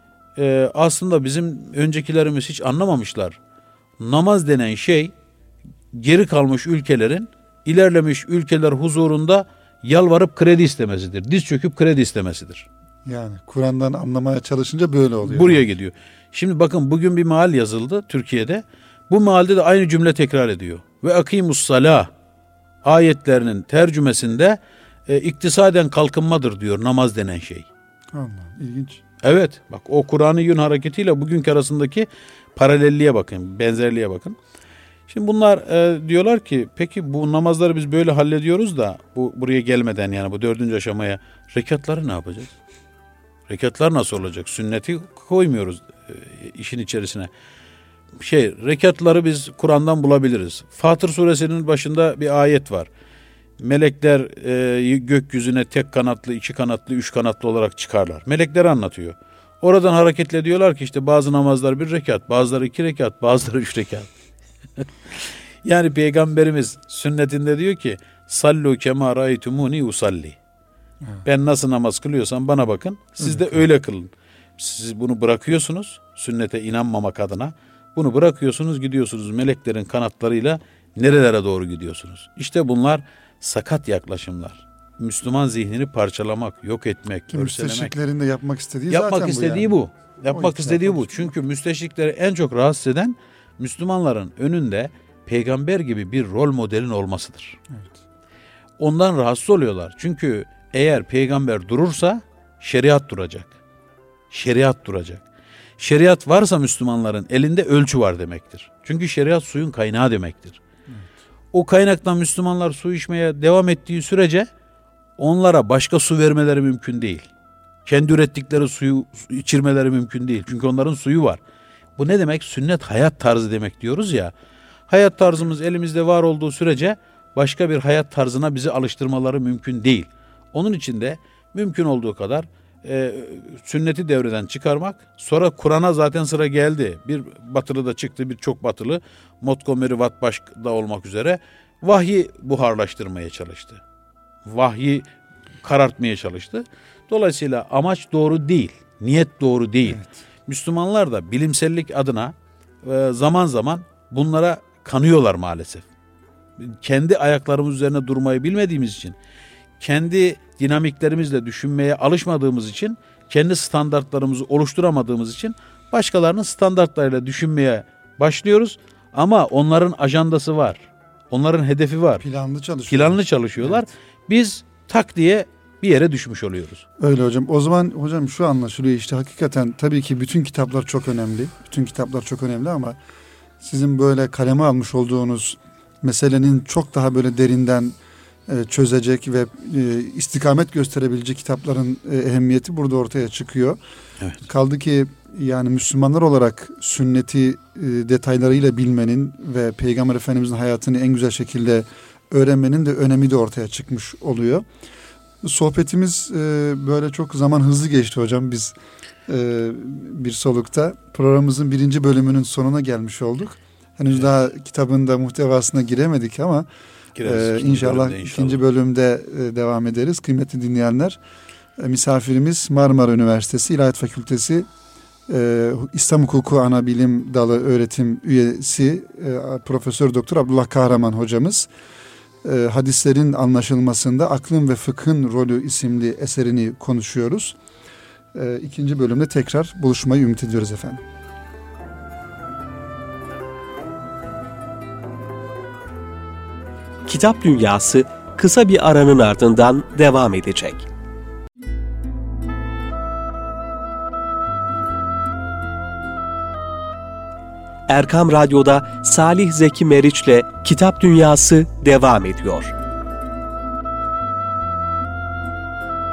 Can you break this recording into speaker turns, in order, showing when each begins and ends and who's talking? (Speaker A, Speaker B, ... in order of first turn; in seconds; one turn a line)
Speaker A: 0.3-3.4
Speaker A: 4.0-5.1
Speaker A: 5.9-12.7
Speaker B: 13.0-15.6
Speaker A: 15.2-22.1
Speaker A: 22.8-27.7
Speaker B: 28.1-29.0
Speaker A: 29.2-34.4
Speaker A: 35.1-42.5
Speaker A: 43.5-47.3
Speaker A: 48.2-52.9
Speaker A: 53.6-64.1
Speaker A: 64.8-70.4
Speaker A: 71.2-87.9
Speaker B: 73.2-73.6
Speaker B: 87.3-89.8
Speaker A: 88.9-97.6
Speaker B: 90.3-91.3
Speaker A: 98.8-103.5
Speaker A: 104.3-105.2
Speaker A: 105.8-110.6
Speaker A: 111.5-114.5
Speaker A: 115.2-117.3
Speaker A: 117.8-121.4
Speaker A: 122.0-124.3
Speaker A: 124.9-143.8
Speaker A: 144.4-145.1
Speaker A: 145.6-155.8
Speaker B: 149.8-150.1
Speaker A: 156.6-159.2
Speaker A: 159.8-172.2
Speaker B: 172.2-173.8
Speaker A: 172.9-176.8
Speaker B: 177.0-183.0
Speaker B: 183.6-193.8
Speaker B: 194.4-204.7
Speaker B: 205.4-208.7
Speaker B: 209.3-216.7
Speaker A: 217.2-218.6
Speaker B: 217.2-221.2
Speaker B: 221.8-224.7
Speaker B: 225.3-231.7
Speaker B: 232.4-237.6
Speaker B: 238.3-241.0
Speaker C: 247.1-250.9
Speaker C: 257.9-262.7